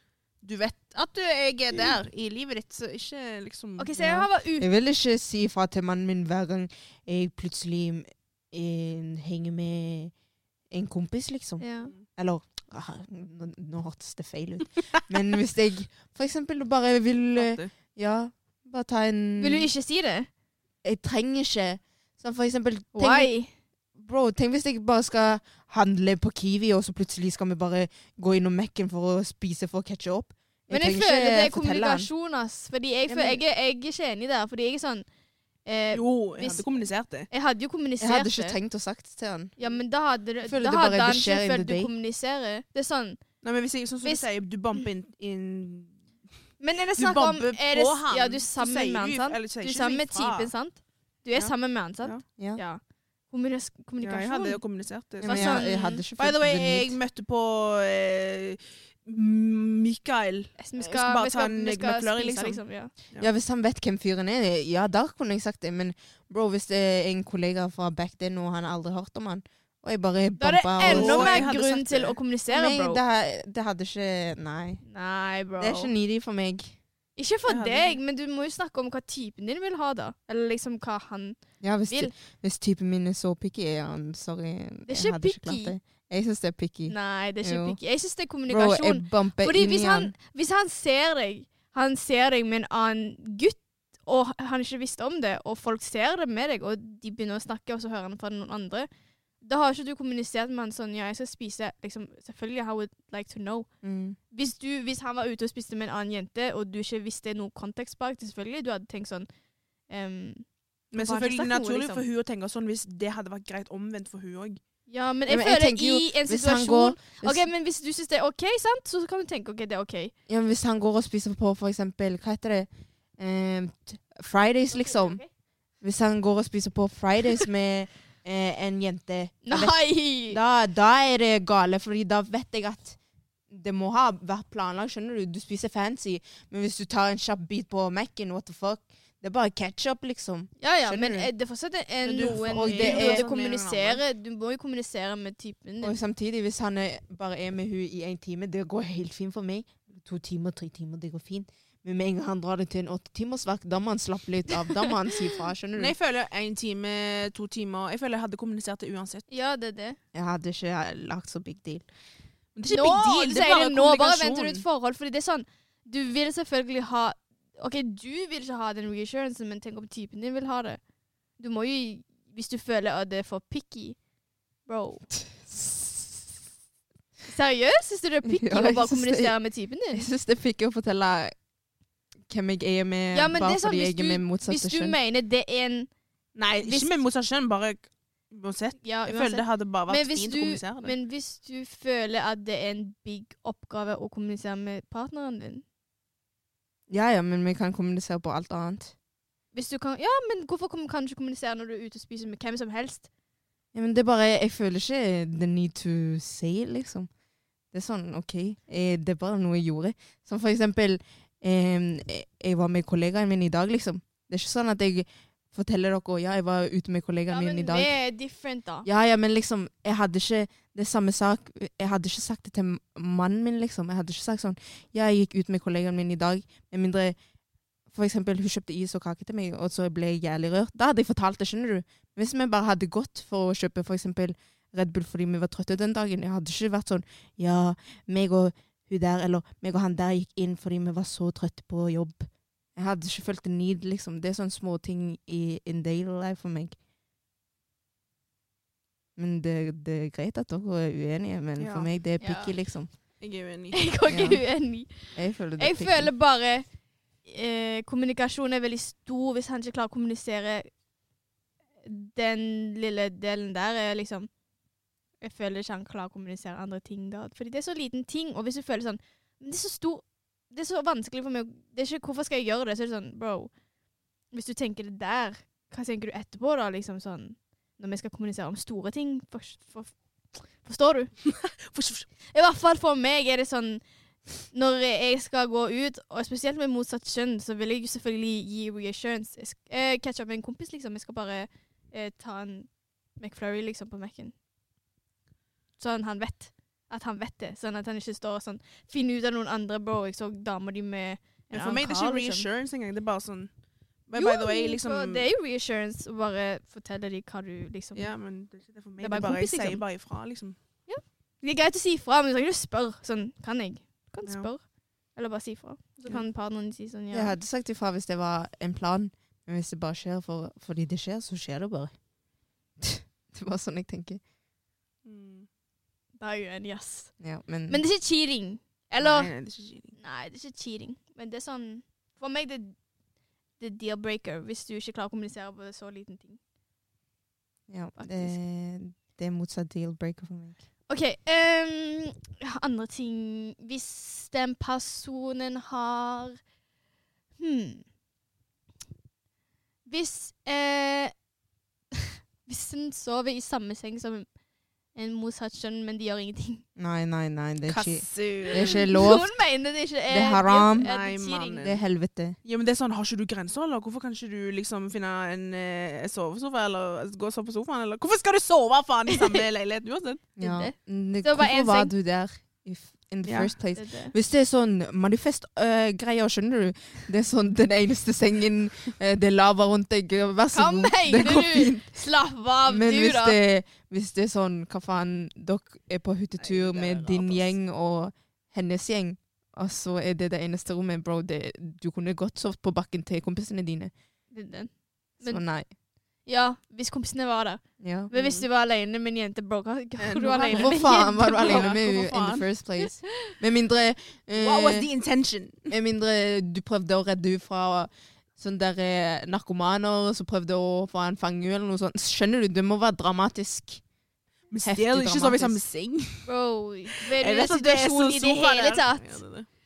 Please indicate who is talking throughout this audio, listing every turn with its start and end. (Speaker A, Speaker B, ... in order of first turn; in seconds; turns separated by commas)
Speaker A: 0.4-3.9, Speaker B: 3.8-4.7, Speaker C: 4.0-10.1, Speaker C: 10.7-19.7, Speaker B: 11.6-11.9, Speaker A: 17.3-17.7, Speaker B: 19.4-20.3, Speaker C: 20.8-23.3, Speaker B: 22.9-23.5, Speaker C: 23.9-32.1, Speaker B: 30.7-35.1, Speaker C: 33.1-33.4, Speaker B: 35.6-38.5, Speaker A: 35.9-37.3, Speaker C: 38.0-39.5, Speaker B: 39.6-43.2, Speaker C: 40.4-41.9, Speaker A: 43.4-46.0, Speaker B: 46.6-54.6, Speaker A: 47.0-50.5, Speaker A: 51.4-52.2, Speaker A: 54.0-55.6, Speaker B: 55.2-56.0, Speaker C: 55.2-57.0, Speaker A: 56.2-62.6, Speaker B: 60.6-62.9, Speaker C: 63.2-71.5, Speaker B: 70.4-73.0, Speaker A: 70.8-72.2, Speaker C: 72.5-74.8, Speaker B: 74.8-75.9, Speaker C: 75.6-76.8, Speaker B: 77.2-82.1, Speaker A: 77.5-78.0, Speaker C: 81.6-87.8, Speaker B: 84.8-85.7, Speaker B: 86.9-98.9, Speaker C: 88.5-90.1, Speaker B: 99.4-103.7, Speaker C: 103.8-104.2, Speaker B: 104.3-109.3, Speaker B: 109.9-112.0, Speaker A: 110.9-114.6, Speaker B: 114.9-120.1, Speaker C: 115.3-117.5, Speaker C: 120.3-125.2, Speaker B: 124.7-125.3, Speaker C: 125.8-133.0, Speaker B: 129.4-130.4, Speaker C: 133.5-141.3, Speaker B: 140.6-146.0, Speaker A: 142.0-144.0, Speaker C: 142.4-143.3, Speaker C: 145.8-155.9, Speaker A: 155.8-159.2, Speaker B: 159.3-160.0, Speaker C: 160.1-161.9, Speaker A: 162.5-164.6, Speaker B: 162.7-170.8, Speaker B: 171.4-174.0, Speaker B: 174.7-175.1, Speaker C: 175.2-176.1, Speaker B: 177.3-180.1, Speaker C: 178.3-179.4, Speaker C: 179.9-181.3, Speaker C: 182.3-184.9, Speaker B: 183.1-185.9, Speaker A: 186.3-190.9, Speaker B: 186.6-187.0, Speaker B: 188.8-195.6, Speaker C: 196.9-198.9, Speaker B: 199.5-203.1, Speaker C: 203.7-207.1, Speaker C: 207.7-217.9, Speaker B: 217.3-218.8, Speaker C: 218.8-227.2, Speaker C: 227.9-246.8, Speaker C: 249.2-252.9, Speaker A: 251.6-251.9, Speaker B: 252.2-252.5, Speaker A: 253.2-254.3, Speaker B: 253.7-256.6, Speaker C: 254.1-254.5, Speaker C: 255.1-256.1, Speaker B: 257.2-260.7, Speaker B: 261.8-264.3, Speaker B: 265.2-273.5, Speaker B: 274.3-281.1, Speaker A: 281.4-282.1, Speaker B: 282.3-283.8, Speaker B: 284.4-294.3, Speaker B: 295.8-302.5, Speaker A: 301.5-303.5, Speaker A: 304.1-305.3, Speaker B: 304.1-308.1, Speaker A: 307.9-310.6, Speaker B: 309.0-309.9, Speaker B: 310.9-317.4, Speaker C: 317.1-321.9, Speaker C: 322.8-324.2, Speaker A: 325.0-325.5, Speaker B: 326.2-327.1, Speaker C: 327.2-327.8, Speaker B: 327.7-329.3, Speaker A: 329.0-329.9, Speaker B: 329.9-332.8, Speaker B: 333.6-336.4, Speaker C: 337.7-340.6, Speaker B: 337.9-338.4, Speaker B: 340.9-346.4, Speaker B: 347.4-347.8, Speaker B: 349.9-351.1, Speaker B: 352.4-354.3, Speaker B: 354.9-356.6, Speaker C: 356.8-359.3, Speaker A: 357.7-358.9, Speaker B: 358.5-361.6, Speaker C: 360.1-360.9, Speaker A: 360.8-361.8, Speaker C: 361.6-362.4, Speaker A: 362.4-370.2, Speaker B: 369.1-369.4, Speaker C: 370.4-381.9, Speaker B: 370.4-371.9, Speaker A: 373.2-373.5, Speaker B: 373.7-374.1, Speaker B: 380.5-383.4, Speaker C: 382.6-393.9, Speaker A: 386.4-387.5, Speaker B: 394.3-395.4, Speaker C: 395.2-395.7, Speaker B: 396.2-401.7, Speaker C: 397.8-398.1, Speaker A: 398.1-398.4, Speaker A: 400.0-402.5, Speaker C: 400.5-404.9, Speaker B: 402.8-403.3, Speaker A: 404.4-405.7, Speaker C: 405.7-413.8, Speaker A: 414.5-416.3, Speaker C: 414.6-415.6, Speaker B: 416.2-419.2, Speaker A: 417.0-419.5